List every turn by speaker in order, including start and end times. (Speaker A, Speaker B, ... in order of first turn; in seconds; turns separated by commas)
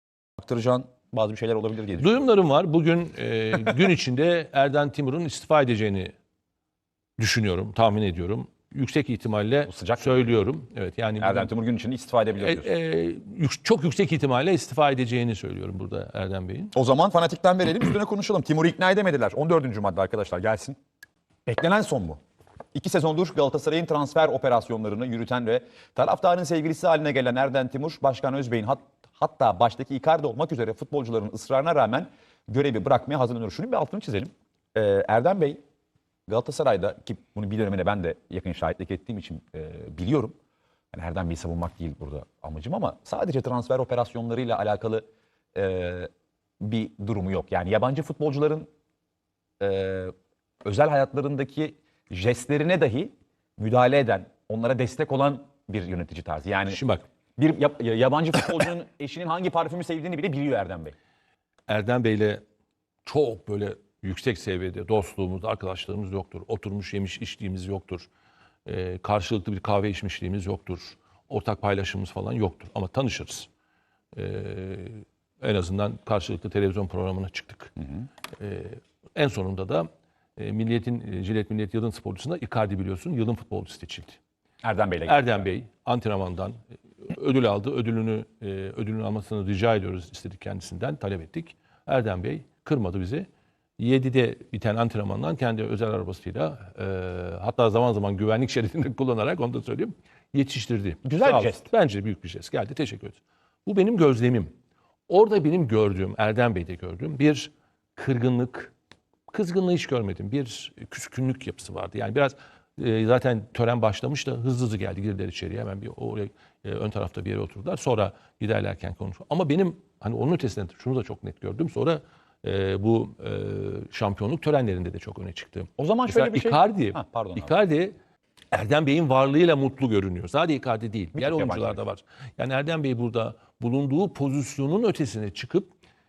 Speaker A: 0.4-2.2, Speaker B: 2.0-6.1, Speaker B: 7.2-11.5, Speaker A: 9.7-10.3, Speaker A: 11.2-12.7, Speaker B: 12.4-16.7, Speaker A: 16.7-20.8, Speaker A: 21.4-22.2, Speaker A: 22.7-35.6, Speaker A: 36.3-40.3, Speaker A: 40.9-46.1, Speaker A: 46.6-48.7, Speaker A: 49.6-50.1, Speaker A: 50.6-56.8, Speaker B: 56.7-57.0, Speaker A: 57.4-60.9, Speaker B: 61.7-62.4, Speaker B: 63.0-68.1, Speaker B: 68.7-73.5, Speaker B: 74.1-77.7, Speaker B: 78.4-84.2, Speaker A: 84.6-85.4, Speaker B: 85.0-93.3, Speaker B: 93.8-104.5, Speaker A: 101.0-101.7, Speaker B: 105.1-108.7, Speaker B: 109.3-127.9, Speaker A: 125.8-127.5, Speaker B: 128.5-135.7, Speaker A: 131.2-131.8